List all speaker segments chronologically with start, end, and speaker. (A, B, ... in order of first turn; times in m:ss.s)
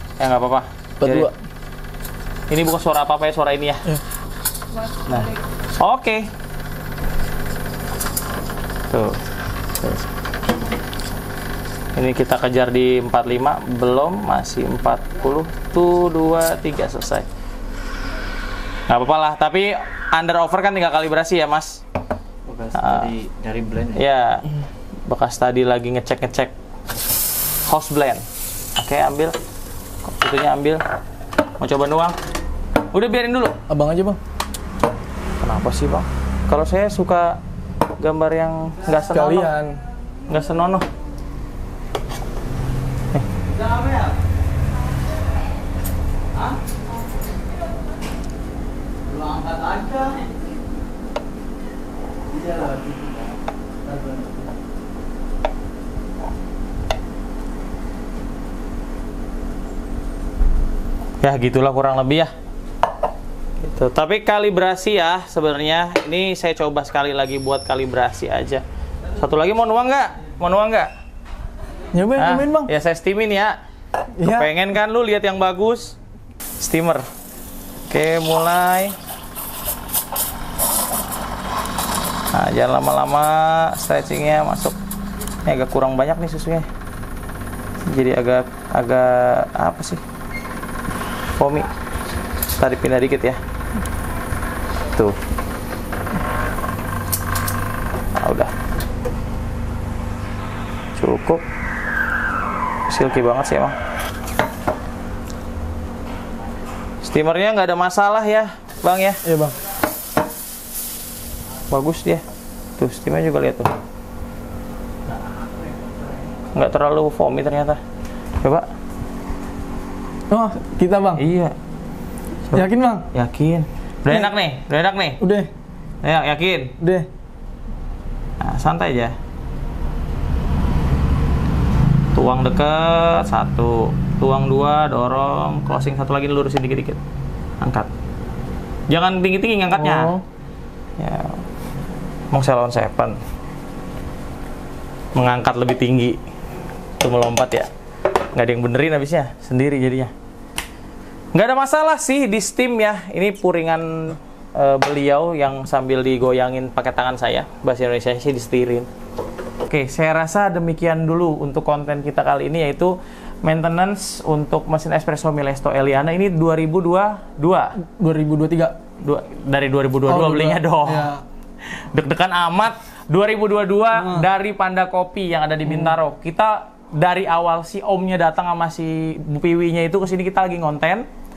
0:00.2-0:01.3 A
0:01.0-0:01.3 B
0:02.5-0:03.8 A
0:05.0-0:06.3 A
0:08.9-0:09.2 A
0:09.8-0:10.1 A
0:12.0-0:17.3 A
0:18.9-0:21.8 A
0:22.5-0:24.0 C
0:22.7-0:23.1 A
0:24.0-0:26.5 A
0:27.7-0:28.2 A
0:28.8-0:29.4 A
0:30.0-0:30.8 A
0:31.6-0:32.2 A
0:32.9-0:33.6 A
0:33.7-0:34.2 B
0:35.4-0:37.4 A
0:38.0-0:39.5 A
0:39.1-0:39.8 B
0:40.3-0:40.9 A
0:49.7-0:50.1 A
0:52.6-0:53.0 C
1:01.2-1:02.3 A
1:03.6-1:08.6 A
1:09.2-1:10.9 A
1:11.9-1:12.7 B
1:12.2-1:13.6 A
1:14.1-1:14.5 B
1:14.2-1:16.0 A
1:16.6-1:17.0 A
1:17.9-1:19.0 A
1:22.3-1:24.8 A
1:25.4-1:26.7 A
1:27.9-1:30.0 A
1:31.4-1:31.7 A
1:32.5-1:33.4 A
1:38.2-1:38.5 A
1:41.0-1:41.4 A
1:42.9-1:43.8 A
1:47.0-1:49.2 A
1:49.2-1:49.6 B
1:51.7-1:52.2 A
1:52.8-1:53.7 A
1:56.5-1:57.8 A
2:00.3-2:01.2 B
2:01.2-2:01.6 A
2:02.5-2:05.2 A
2:02.5-2:03.1 B
2:05.2-2:05.5 B
2:06.0-2:06.8 A
2:06.8-2:07.1 B
2:08.4-2:09.2 A
2:12.2-2:17.0 A
2:17.6-2:17.9 A
2:18.9-2:20.2 A
2:19.8-2:20.2 B
2:21.0-2:21.4 A
2:22.3-2:23.2 A
2:25.2-2:26.2 A
2:27.0-2:27.7 A
2:28.3-2:30.1 A
2:31.3-2:38.9 A
2:39.7-2:47.8 A
2:47.8-2:48.8 B
2:49.0-2:51.1 A
2:50.1-2:51.2 B
2:51.6-3:01.1 A
2:54.0-2:54.2 B
2:55.7-2:55.9 B